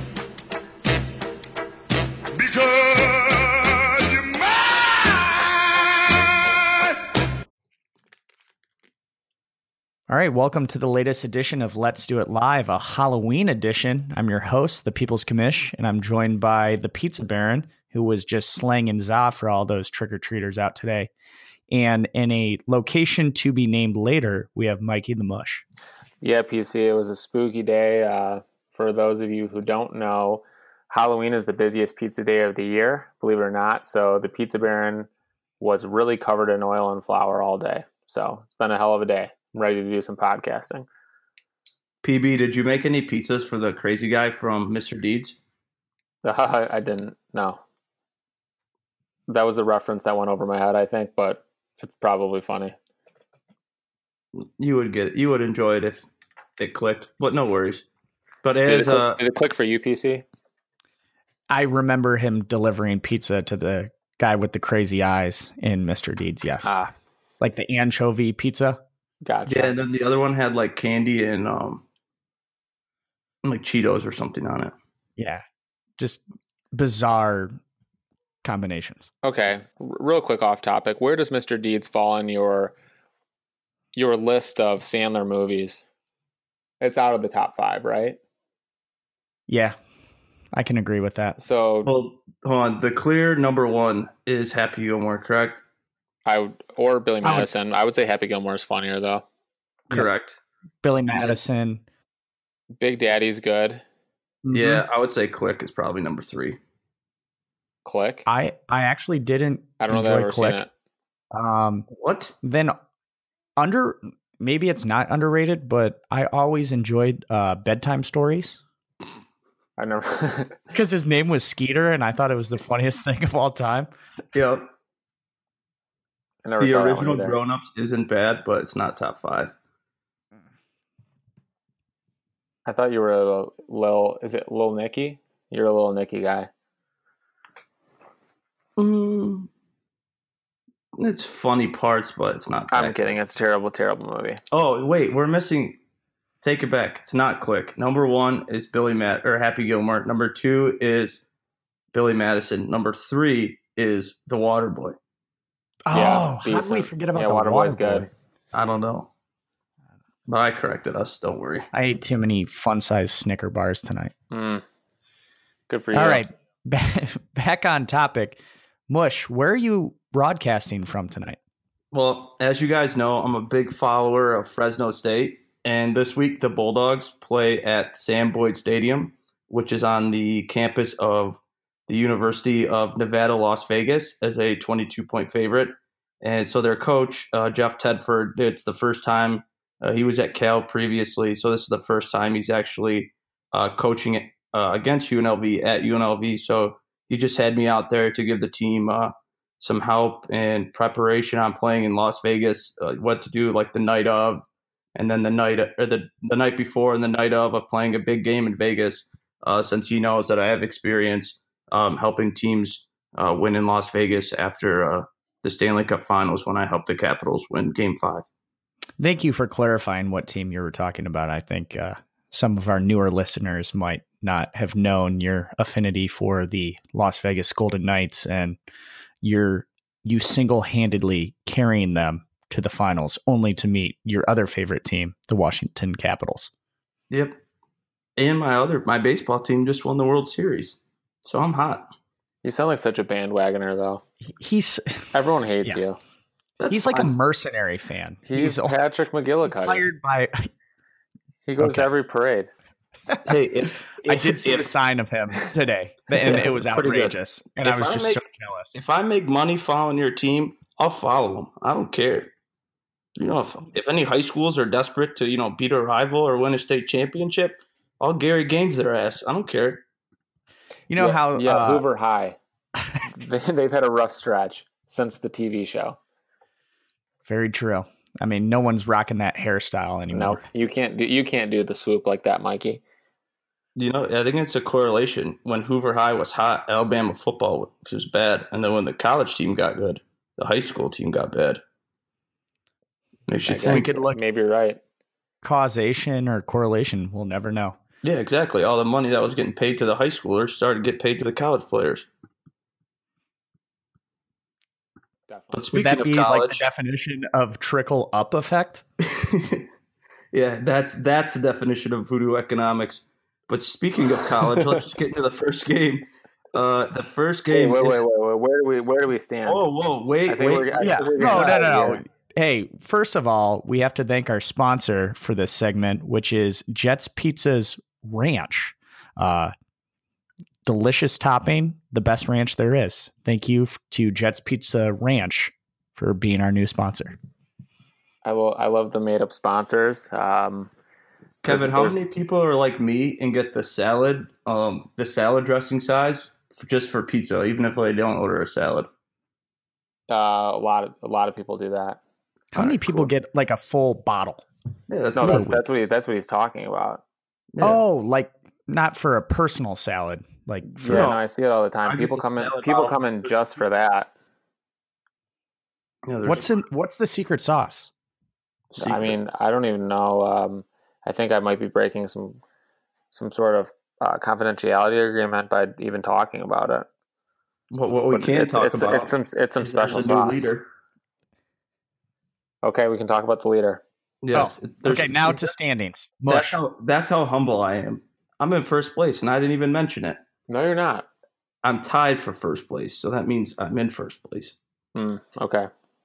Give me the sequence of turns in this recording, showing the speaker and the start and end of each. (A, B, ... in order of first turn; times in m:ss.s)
0:02.3-0:07.0 A
0:10.1-0:21.1 B
0:21.7-0:25.6 B
0:26.2-0:35.1 C
0:35.6-0:40.9 C
0:42.0-0:45.4 D
0:46.2-0:47.6 C
0:49.3-0:52.8 C
0:54.4-0:56.1 D
0:56.6-0:57.9 D
0:58.4-0:59.2 D
0:58.6-1:00.2 C
1:01.5-1:06.8 B
1:06.6-1:06.9 C
1:07.4-1:08.8 B
1:09.3-1:09.7 C
1:09.5-1:11.8 D
1:13.4-1:14.7 D
1:15.2-1:15.4 B
1:16.7-1:17.6 B
1:18.4-1:19.1 B
1:19.2-1:22.8 C
1:24.0-1:25.9 C
1:26.8-1:28.2 C
1:29.5-1:29.8 B
1:30.5-1:31.4 B
1:31.4-1:31.9 C
1:31.8-1:35.6 D
1:36.3-1:39.2 C
1:39.9-1:40.4 D
1:40.8-1:41.8 B
1:42.8-1:43.8 C
1:44.4-1:44.8 B
1:44.5-1:46.6 D
1:47.8-1:48.3 C
1:48.3-1:50.7 B
1:49.8-1:50.7 C
1:51.3-1:51.9 B
1:51.9-1:52.4 D
1:52.4-1:52.8 B
1:53.6-1:58.6 B
1:59.8-2:00.6 C
2:00.7-2:03.9 B
2:04.4-2:04.7 D
2:06.4-2:07.4 C
2:06.6-2:09.6 D
2:12.7-2:16.5 C
2:18.8-2:19.5 D
2:21.0-2:23.0 D
2:22.7-2:24.4 C
2:24.5-2:25.8 D
2:26.4-2:31.2 D
2:31.9-2:35.0 D
2:35.9-2:38.1 B
2:35.9-2:38.1 C
2:38.5-2:39.1 D
2:40.3-2:41.7 D
2:41.7-2:44.1 B
2:44.3-2:44.6 C
2:45.7-2:46.2 C
2:45.9-2:51.4 B
2:51.9-3:38.3 D
3:39.0-3:48.6 B
3:49.2-3:56.5 B
3:57.1-3:57.4 D
3:58.2-4:01.9 D
4:02.4-4:04.0 C
4:04.3-4:05.1 B
4:05.1-4:06.0 C
4:06.6-4:07.1 D
4:06.7-4:08.8 B
4:08.3-4:09.8 C
4:09.5-4:10.5 B
4:11.5-4:12.5 C
4:11.6-4:11.9 B
4:13.2-4:14.7 D
4:14.0-4:18.8 B
4:16.2-4:18.2 D
4:18.8-4:22.3 D
4:23.2-4:29.8 D
4:30.9-4:31.8 B
4:31.0-4:32.4 C
4:33.0-4:36.0 C
4:37.3-4:40.4 B
4:40.1-4:42.8 C
4:43.8-4:51.6 D
4:53.3-4:53.9 D
4:53.4-4:54.8 C
4:53.5-4:54.2 B
4:55.4-4:57.8 B
4:58.0-5:02.1 D
5:05.3-5:05.6 C
5:05.5-5:06.6 D
5:05.7-5:08.8 B
5:09.0-5:09.7 D
5:10.3-5:18.0 D
5:17.5-5:19.7 C
5:19.5-5:21.9 D
5:20.3-5:22.0 C
5:20.8-5:29.5 B
5:30.7-5:37.2 B
5:38.2-5:40.7 C
5:41.4-5:48.9 D
5:41.5-5:42.0 C
5:50.1-5:52.0 C
5:52.5-5:54.5 B
5:52.6-5:53.1 D
5:54.9-5:55.5 D
5:55.2-5:57.0 C
5:55.2-5:55.6 B
5:57.5-5:57.8 D
5:57.6-6:01.1 B
6:00.6-6:04.1 C
6:00.9-6:01.2 D
6:01.9-6:03.3 D
6:06.1-6:06.6 D
6:06.2-6:07.9 B
6:08.7-6:09.2 D
6:08.8-6:12.4 C
6:13.1-6:16.9 C
6:17.7-6:20.7 D
6:18.1-6:20.5 C
6:22.6-6:23.8 C
6:24.2-6:25.5 D
6:24.3-6:26.6 B
6:26.3-6:30.2 D
6:30.5-6:31.1 C
6:31.6-6:34.6 D
6:35.0-6:35.7 C